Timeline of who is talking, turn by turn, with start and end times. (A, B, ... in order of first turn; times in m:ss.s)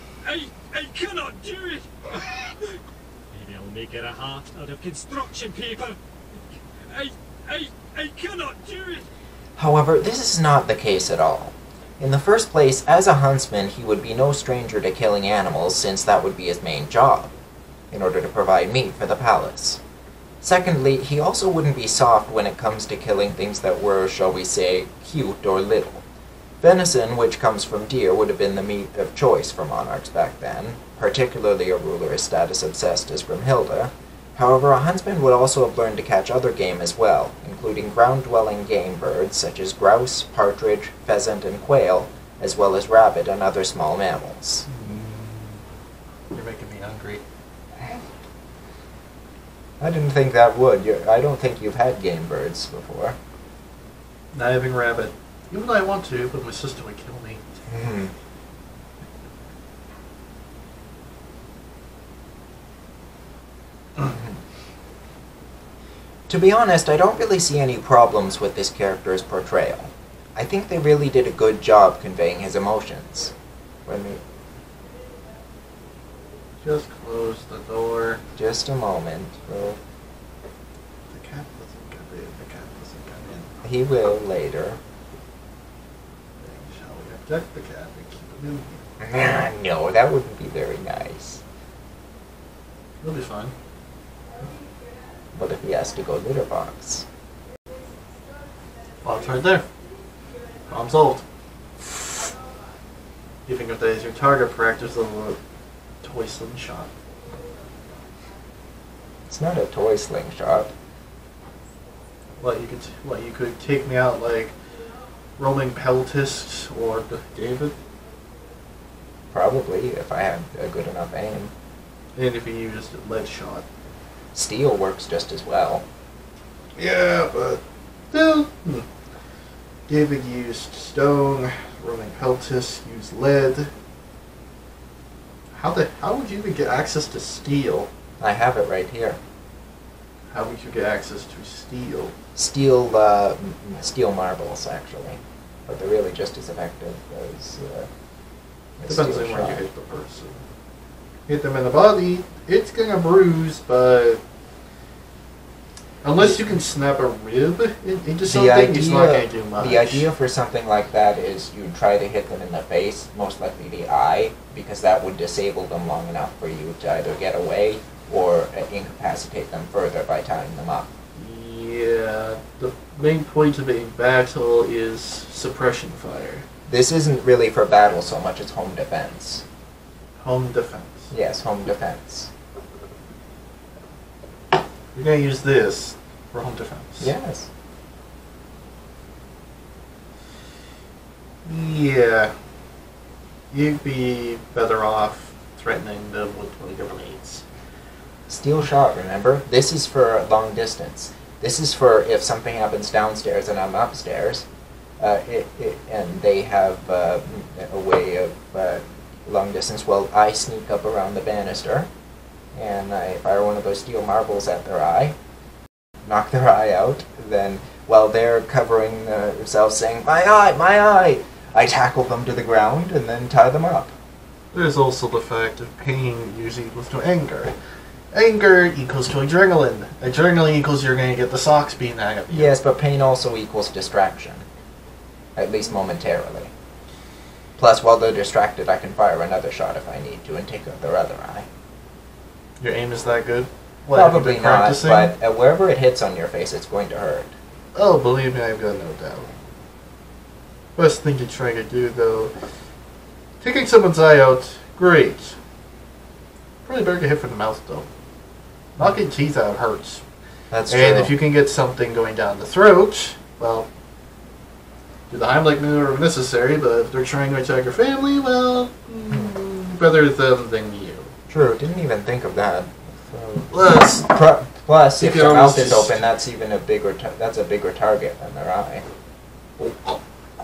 0:00.2-0:02.5 A
0:03.3-0:06.0 A
0:06.8-0:09.1 A
0:09.6-0:17.3 B
0:17.9-0:19.8 B
0:20.4-0:26.0 B
0:26.6-0:44.7 B
0:44.9-0:45.1 C
0:46.3-0:47.2 C
0:49.8-0:53.2 B
0:54.3-0:57.5 C
0:57.7-0:58.1 B
1:04.0-1:04.4 B
1:06.3-1:13.3 B
1:13.9-1:14.2 B
1:16.6-1:18.2 C
1:18.4-1:19.8 B
1:21.1-1:23.6 C
1:23.6-1:24.8 B
1:26.4-1:28.8 C
1:29.0-1:31.4 B
1:33.0-1:33.5 C
1:35.3-1:37.1 B
1:39.0-1:39.7 C
1:40.7-1:41.2 C
1:43.5-1:45.4 C
1:46.0-1:46.9 C
1:49.3-1:50.7 B
1:52.4-1:54.6 C
1:55.4-1:57.8 C
1:59.3-2:01.5 B
2:02.2-2:03.6 C
2:04.3-2:05.8 B
2:06.8-2:07.6 C
2:08.1-2:08.9 C
2:09.9-2:13.7 C
2:15.5-2:17.9 C
2:18.2-2:19.2 B
2:20.3-2:22.1 C
2:22.4-2:27.9 B
2:28.8-2:29.6 B
2:28.9-2:30.4 C
2:31.3-2:34.2 C
2:36.0-2:40.1 C
2:38.2-2:51.0 B
2:51.2-2:56.5 C
2:56.7-2:59.4 B
3:00.2-3:01.1 C
3:01.1-3:02.3 B
3:05.0-3:07.1 C
3:07.0-3:07.5 B
3:11.4-3:12.3 C
3:13.5-3:17.4 C
3:18.3-3:24.5 B
3:25.0-3:31.9 B
3:32.5-3:35.2 B
3:36.0-3:43.9 B
3:44.5-3:47.5 C
3:48.1-3:52.6 C
3:52.3-3:54.5 B
3:55.4-3:56.5 B
3:57.6-4:01.5 B
4:02.6-4:05.1 C
4:03.9-4:07.3 B
4:07.8-4:09.3 C
4:10.8-4:12.3 C
4:13.4-4:15.4 C
4:16.6-4:17.9 C
4:18.8-4:20.0 C
4:20.5-4:21.2 B
4:20.7-4:23.7 C
4:25.1-4:31.1 C
4:31.3-4:38.9 B
4:33.5-4:34.1 C
4:35.0-4:36.1 C
4:39.6-4:40.0 C